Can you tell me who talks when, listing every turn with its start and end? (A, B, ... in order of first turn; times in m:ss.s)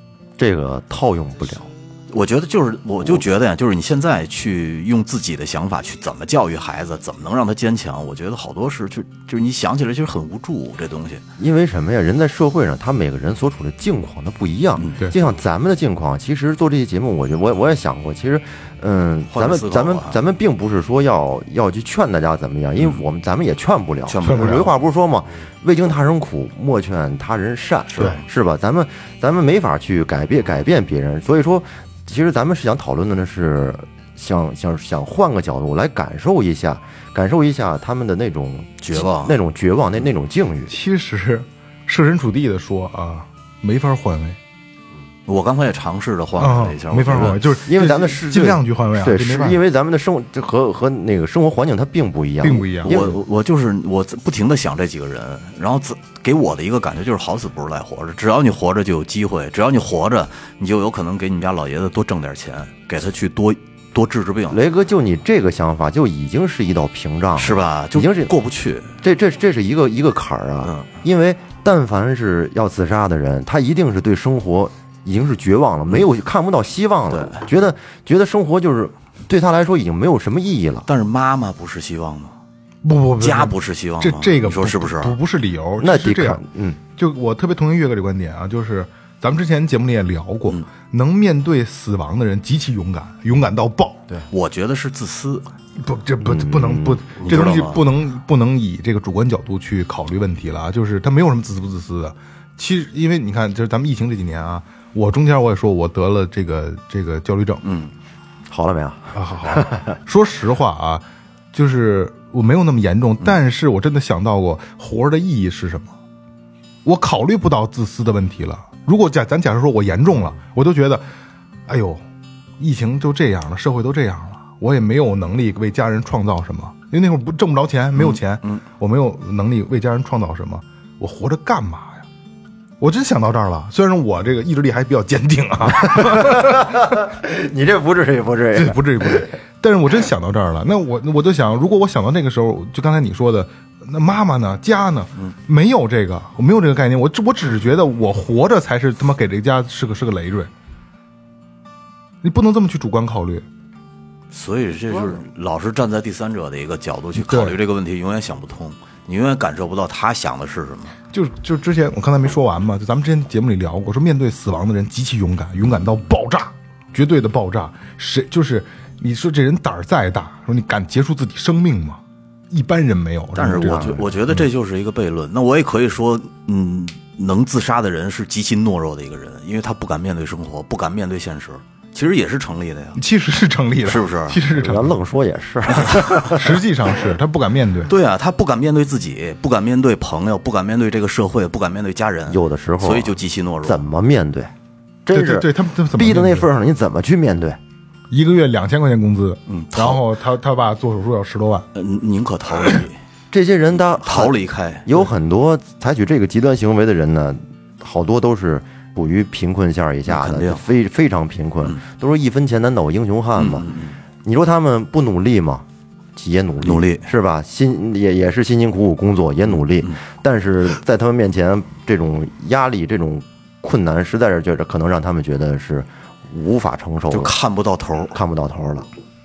0:00.4-0:01.7 A
0:02.1-0:11.2 B
0:11.4-0:40.8 A
0:19.3-0:20.2 B
0:24.1-0:24.7 B
0:24.2-0:24.7 C
0:27.9-0:28.2 B
0:38.8-0:39.4 B
0:40.7-0:44.4 C
0:45.3-0:47.4 B
0:46.4-0:49.6 C
0:47.6-0:53.2 A
0:52.4-0:53.0 C
0:52.8-1:04.6 B
1:04.5-1:08.3 A
1:07.4-1:09.0 B
1:09.0-1:20.9 A
1:10.6-1:10.9 B
1:17.1-1:17.5 B
1:20.9-1:22.4 B
1:22.8-1:26.4 C
1:23.2-1:25.2 B
1:25.8-1:26.8 A
1:27.0-1:34.1 C
1:34.3-1:35.4 B
1:35.8-1:47.6 C
1:36.2-1:37.0 A
1:37.2-1:37.8 B
1:47.6-1:47.9 B
1:48.5-1:50.0 A
1:49.1-1:56.0 C
1:56.8-2:01.0 C
2:01.7-2:02.0 C
2:02.6-2:12.0 C
2:08.0-2:08.6 B
2:12.8-2:16.8 C
2:15.8-2:19.3 A
2:18.5-2:30.5 C
2:32.2-2:33.4 C
2:34.3-2:41.0 B
2:37.2-2:37.6 C
2:41.1-2:52.0 C
2:52.5-2:54.0 C
2:53.4-3:03.0 B
2:53.6-2:54.0 A
3:03.0-3:05.0 C
3:03.8-3:04.4 B
3:04.5-3:06.6 A
3:06.2-3:07.9 C
3:07.9-3:13.8 B
3:12.3-3:14.5 A
3:15.1-3:17.6 A
3:15.1-3:16.5 C
3:18.1-3:21.7 C
3:19.5-3:20.0 B
3:21.8-3:23.0 B
3:23.3-3:33.7 A
3:24.0-3:25.0 B
3:30.1-3:30.6 B
3:33.4-3:34.0 B
3:34.2-3:47.4 A
3:36.6-3:37.1 B
3:47.1-3:48.2 B
3:48.1-3:48.9 A